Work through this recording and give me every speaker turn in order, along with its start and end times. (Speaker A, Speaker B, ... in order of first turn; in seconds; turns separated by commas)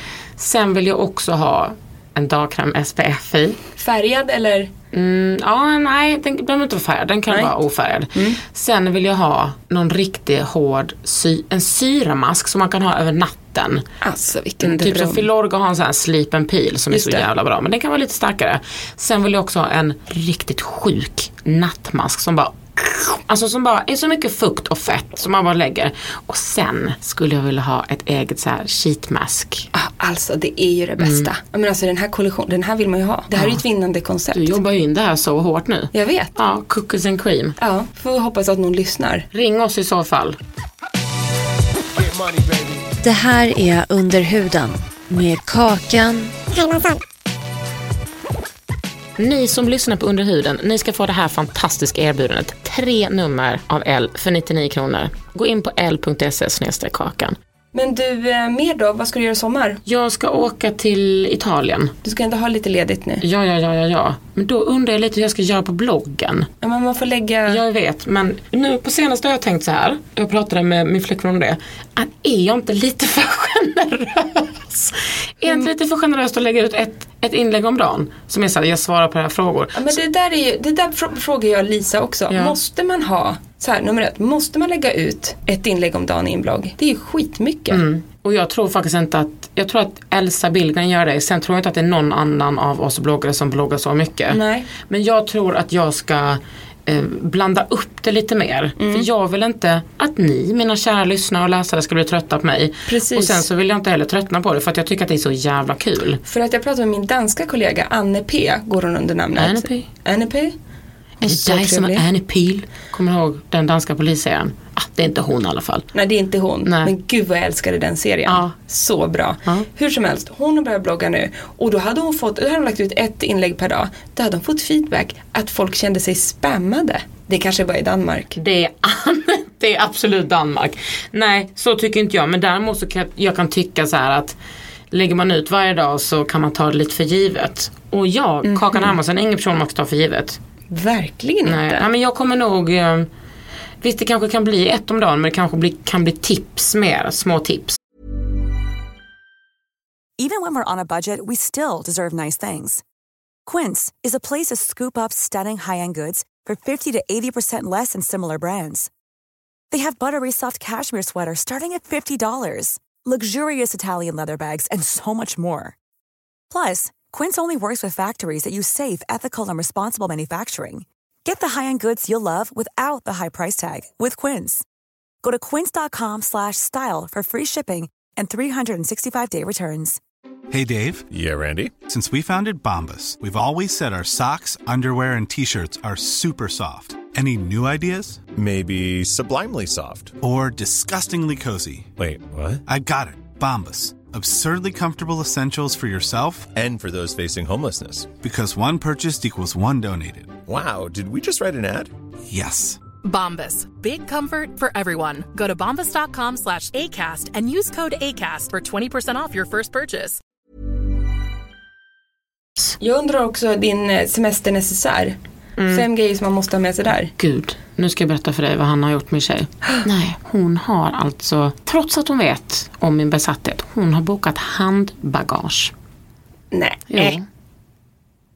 Speaker A: 0.4-3.6, Speaker B: 3.8-4.7, Speaker A: 4.9-13.8, Speaker B: 14.0-15.2, Speaker A: 14.6-29.7, Speaker B: 16.9-17.3, Speaker B: 29.7-34.6, Speaker A: 31.0-31.3, Speaker A: 33.4-33.6, Speaker A: 34.3-37.5, Speaker B: 35.9-36.3, Speaker B: 37.6-39.3, Speaker A: 39.3-40.4, Speaker C: 43.0-46.8, Speaker A: 49.2-57.4, Speaker B: 57.7-59.8, Speaker A: 59.8-61.9, Speaker B: 62.0-63.2, Speaker A: 63.2-66.5, Speaker B: 66.6-67.6, Speaker A: 67.5-80.0, Speaker B: 79.7-87.8, Speaker A: 82.3-82.5, Speaker A: 87.7-106.2, Speaker B: 94.3-94.7, Speaker B: 98.8-99.1, Speaker B: 102.9-103.4, Speaker B: 106.2-110.5, Speaker A: 109.4-109.9, Speaker B: 111.2-112.0, Speaker A: 111.2-115.9, Speaker B: 115.9-128.4, Speaker A: 116.6-116.9, Speaker A: 118.2-118.5, Speaker A: 128.3-134.3, Speaker A: 134.9-140.4, Speaker B: 138.4-138.9, Speaker B: 140.7-141.9, Speaker A: 141.4-143.1, Speaker A: 143.8-147.8, Speaker D: 150.2-152.8, Speaker D: 153.4-158.9, Speaker D: 159.7-165.8, Speaker D: 166.5-174.6, Speaker D: 175.2-180.0, Speaker E: 180.5-181.0, Speaker F: 181.1-181.8, Speaker E: 181.8-188.2, Speaker F: 188.3-190.2, Speaker E: 190.2-191.9, Speaker F: 191.9-192.6, Speaker E: 192.7-196.5, Speaker F: 196.5-198.2, Speaker E: 198.2-200.4, Speaker F: 200.4-201.9, Speaker E: 202.3-202.8, Speaker G: 203.0-210.2, Speaker B: 212.8-215.2, Speaker A: 215.6-215.8, Speaker B: 215.7-217.1, Speaker A: 217.2-225.7, Speaker B: 226.5-227.2, Speaker A: 226.9-227.2